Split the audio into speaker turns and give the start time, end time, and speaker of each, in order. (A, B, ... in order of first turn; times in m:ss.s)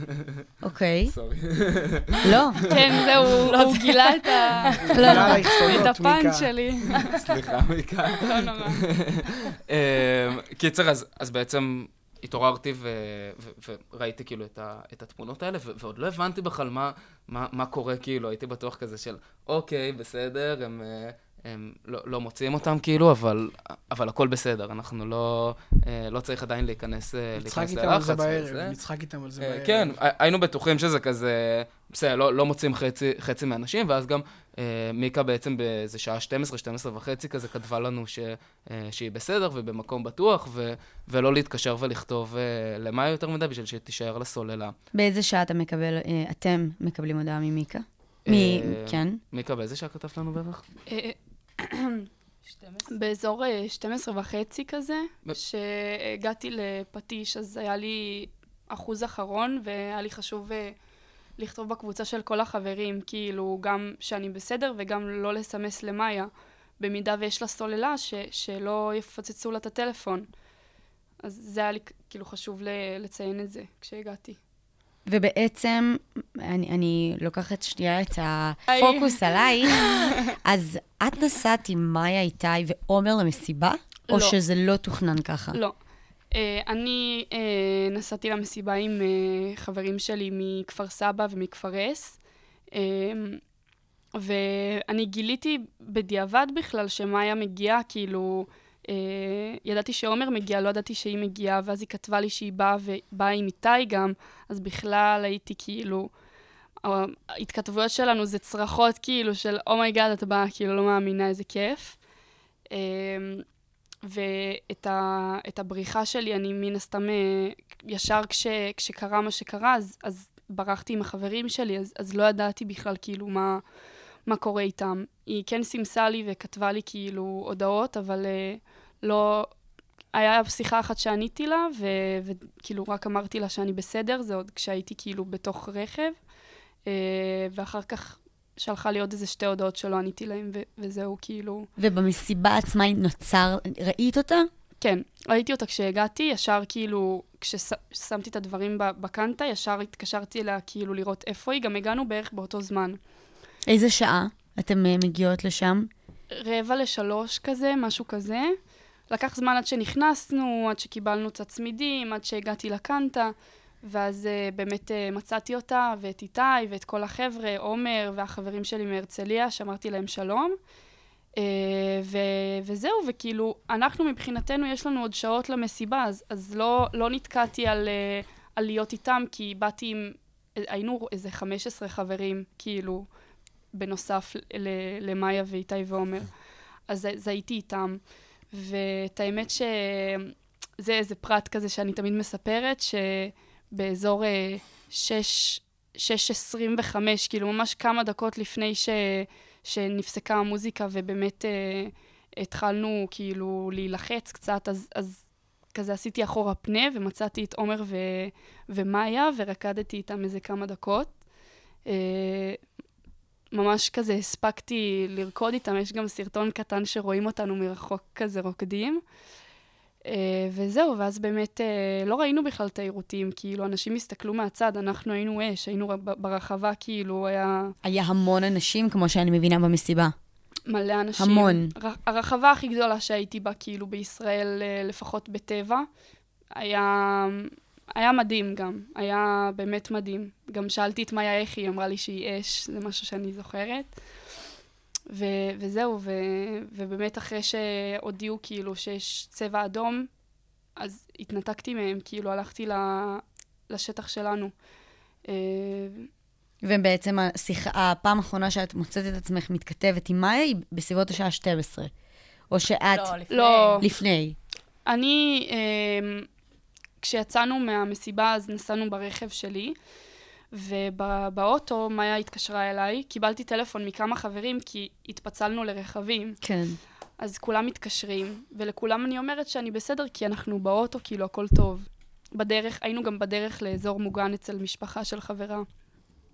0:00.6-0:01.1 A
0:01.1-0:02.7 B
0:02.2-0:02.6 A
0:02.6-0:07.2 C
0:03.4-0:05.1 D
0:04.9-0:05.4 A
0:04.9-0:06.5 E
0:07.0-0:07.2 D
0:07.1-0:28.8 B
0:08.1-0:08.8 C
0:27.4-0:30.0 E
0:29.4-0:44.7 B
0:44.9-0:49.2 A
0:48.2-0:50.6 B
0:50.9-0:52.1 C
0:52.5-0:52.9 D
0:52.9-1:00.8 C
1:01.4-1:10.3 C
1:11.2-1:14.4 C
1:15.0-1:25.6 A
1:18.7-1:20.2 C
1:24.1-1:24.4 C
1:26.3-1:32.2 C
1:32.7-1:33.4 C
1:34.2-1:46.1 C
1:46.8-1:52.0 C
1:52.7-1:53.4 C
1:54.0-2:03.6 C
2:04.2-2:09.5 C
2:10.1-2:16.2 C
2:16.8-2:21.7 C
2:21.8-2:24.5 A
2:24.8-2:33.0 C
2:33.7-2:35.9 A
2:36.3-2:38.5 C
2:39.1-2:50.5 C
2:51.4-3:03.1 C
3:03.7-3:06.3 C
3:06.9-3:25.2 C
3:25.7-3:31.1 C
3:31.9-3:32.6 C
3:33.5-3:39.0 C
3:40.0-3:47.7 C
3:47.8-3:50.1 A
3:50.7-3:55.9 C
3:51.2-3:51.7 A
3:56.5-4:03.9 C
4:05.1-4:10.1 C
4:10.8-4:14.5 C
4:15.2-4:16.1 C
4:16.6-4:21.9 A
4:22.5-4:23.1 A
4:22.9-4:23.8 D
4:23.3-4:23.8 C
4:23.8-4:24.4 A
4:24.8-4:26.3 C
4:27.0-4:29.7 C
4:30.5-4:36.4 C
4:36.4-4:36.8 A
4:37.2-4:45.7 C